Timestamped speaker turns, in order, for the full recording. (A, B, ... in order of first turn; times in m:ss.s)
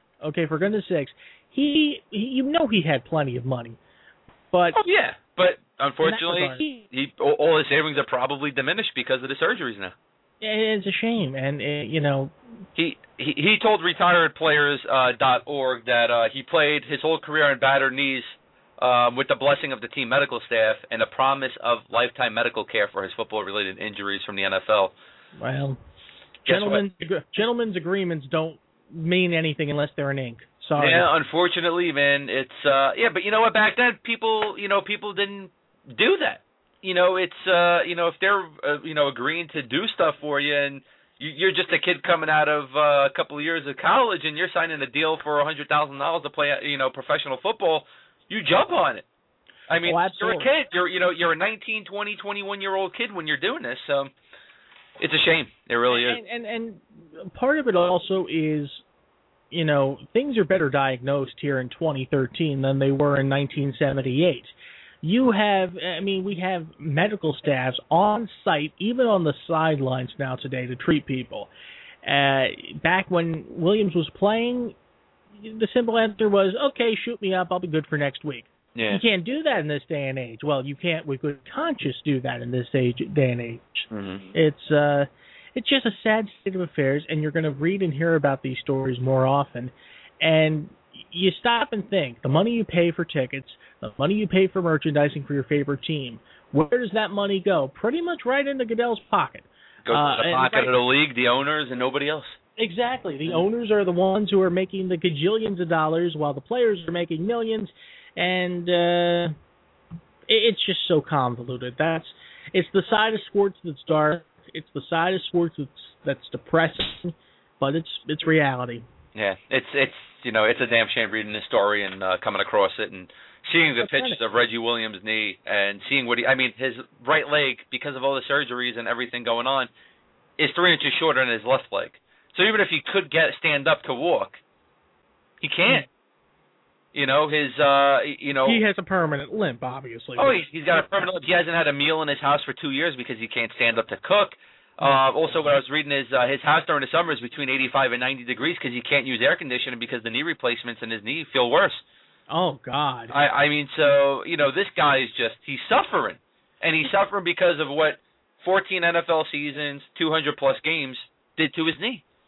0:00.2-0:03.8 A
0:04.5-0:04.8 A
0:04.8-0:09.9 B
0:06.0-0:06.8 A
0:10.4-0:12.3 A
0:12.8-0:24.9 B
0:25.4-0:25.8 A
0:26.4-0:31.1 A
0:26.5-0:26.8 B
0:30.8-0:49.1 B
0:49.7-0:54.1 B
0:49.8-0:50.5 A
0:55.0-0:56.2 B
0:55.9-0:58.8 A
0:59.5-1:04.5 A
1:05.0-1:11.5 A
1:12.0-1:14.8 A
1:15.4-1:40.7 A
1:18.8-1:19.0 B
1:23.9-1:24.3 B
1:39.8-1:42.4 B
1:42.6-1:49.3 A
1:50.3-1:58.8 A
1:59.2-2:09.7 B
2:03.8-2:04.2 A
2:10.4-2:14.4 B
2:15.4-2:15.9 B
2:16.9-2:18.6 B
2:18.4-2:21.1 A
2:20.2-2:31.8 B
2:32.3-2:33.1 A
2:33.1-2:42.0 B